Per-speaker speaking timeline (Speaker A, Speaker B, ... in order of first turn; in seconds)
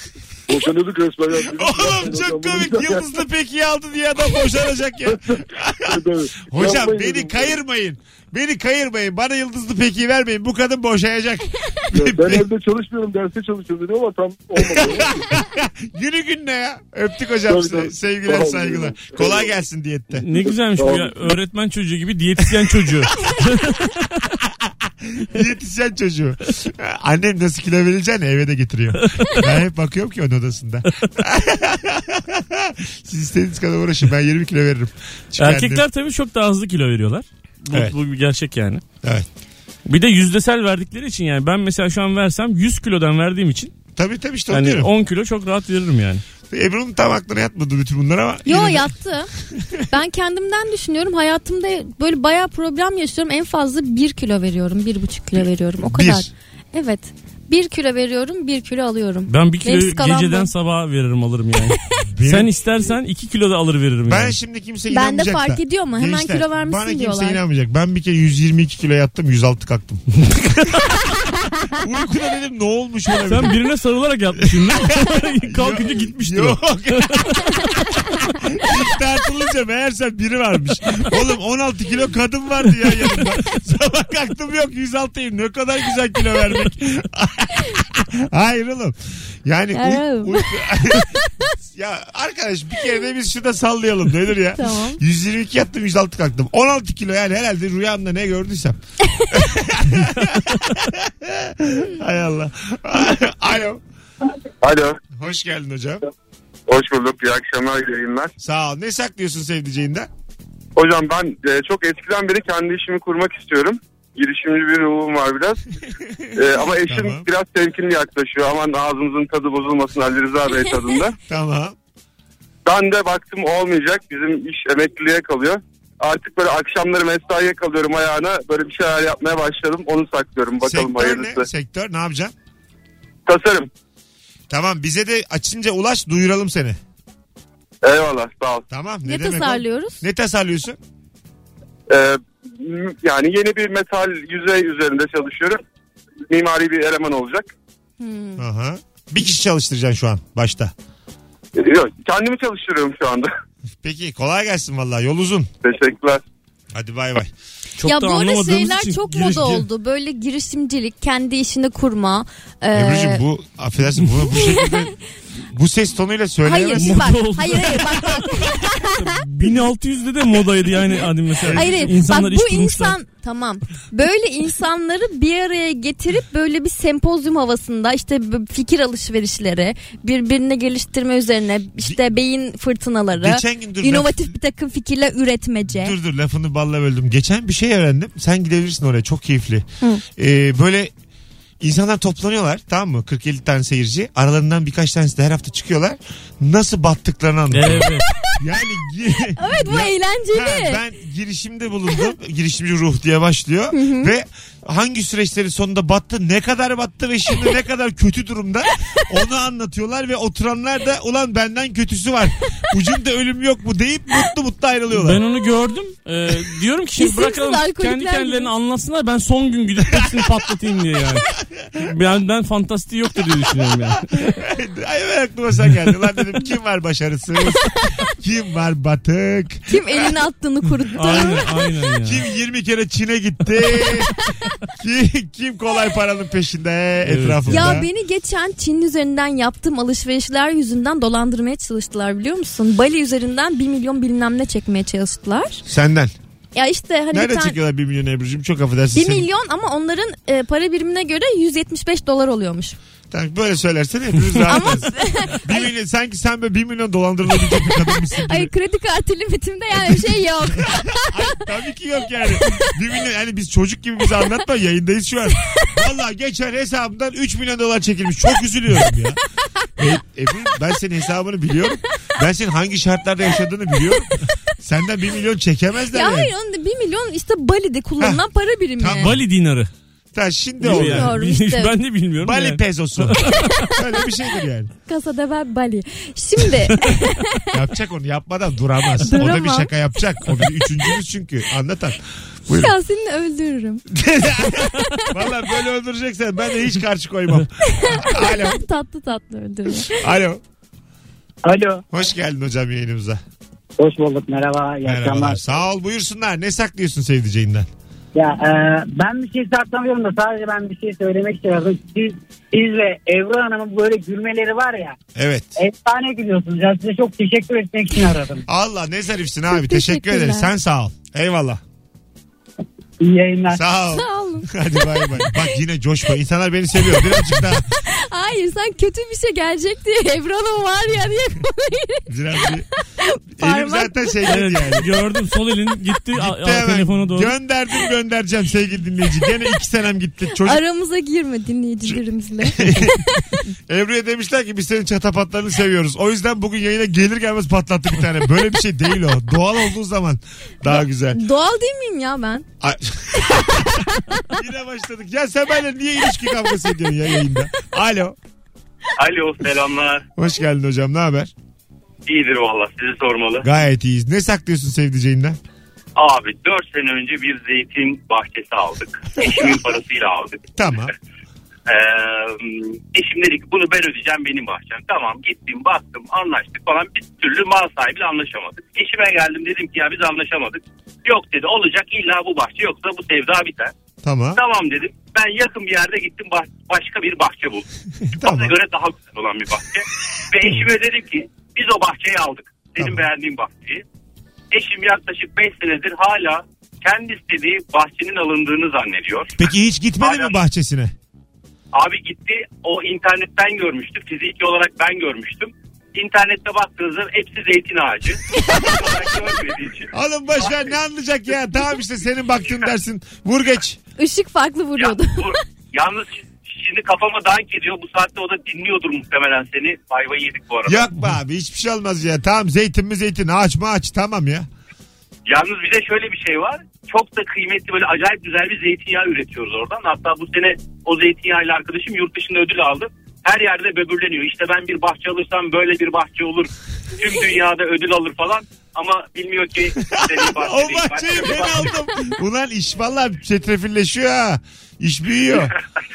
Speaker A: 0.5-3.1, 5.0-7.6, 11.9-15.3, 17.5-19.5, 20.3-21.4
Speaker B: 1.5-12.4, 14.6-20.2, 24.4-35.8, 39.0-39.3, 44.0-44.9, 46.5-48.9, 49.5-49.8, 55.9-56.3, 62.1-62.5, 64.1-70.0, 71.7-73.6, 74.4-98.8, 99.3-103.8, 105.1-106.0, 108.4-110.1, 115.9-117.3, 121.3-121.8, 130.6-132.3, 134.5-136.8, 138.7-140.8, 148.4-150.7, 153.8-155.5, 156.7-157.3, 162.7-164.9, 165.5-167.1, 171.4-171.9, 183.2-184.3, 185.7-190.9, 191.6-215.2, 224.4-230.1, 231.1-231.3, 232.0-234.1, 234.7-237.9, 245.7-246.1, 247.1-249.2, 253.1-258.5, 259.7-269.2, 269.8-276.3, 278.8-279.2, 280.1-281.1, 282.2-284.7, 287.5-292.7, 293.9-298.6, 299.9-300.4, 301.9-303.2, 304.8-307.7, 315.1-315.5, 318.5-321.6, 323.5-327.7, 332.1-332.7, 333.4-334.9, 336.1-340.6, 341.9-343.1, 343.7-351.2, 352.6-358.2, 360.1-361.3, 363.4-365.4, 370.6-370.9, 384.0-384.4, 388.0-388.5, 392.8-393.0, 399.4-400.9, 408.5-408.9, 409.9-413.8, 420.6-424.5, 439.8-445.5
Speaker C: 20.2-24.2, 35.4-38.8, 39.8-43.7, 44.5-46.2, 59.3-64.3, 73.2-77.4, 157.8-159.6, 166.8-172.9, 197.5-198.0, 214.9-224.3, 230.9-232.2, 237.0-237.8, 279.0-279.7, 280.6-283.7, 334.2-337.3
Speaker D: 48.5-49.3, 49.9-60.5, 64.9-67.4, 89.7-91.3, 94.5-95.0, 139.0-140.0, 148.0-148.4, 157.8-163.2, 164.3-164.8, 166.4-169.2, 171.5-185.9, 199.3-200.8, 203.7-204.1, 217.0-218.5, 229.7-231.5, 237.5-245.6, 246.5-247.6, 248.9-252.8, 254.5-255.6, 257.6-261.4, 275.9-279.1, 280.7-281.7, 284.9-287.5, 289.0-289.7, 292.5-293.8, 294.8-295.1, 297.6-300.0, 319.5-320.5, 323.9-324.5, 325.1-325.4, 327.8-332.0, 333.0-334.2, 340.3-343.4, 350.6-352.4, 353.6-354.2, 414.0-415.4
Speaker E: 104.6-105.0, 106.7-108.3, 110.8-115.6, 116.3-121.2, 122.7-131.4, 133.3-133.7, 137.8-138.6, 141.9-145.6, 146.3-147.5, 151.6-153.3, 155.6-156.2
Speaker F: 301.4-301.8, 303.8-305.4, 308.1-314.9, 315.6-318.4, 323.0-323.6
Speaker G: 358.9-360.0, 362.1-363.5, 365.9-370.4, 371.7-383.7, 384.3-387.6, 388.2-393.8, 394.5-399.4, 400.0-400.4, 401.7-410.7, 414.8-420.9, 425.3-441.8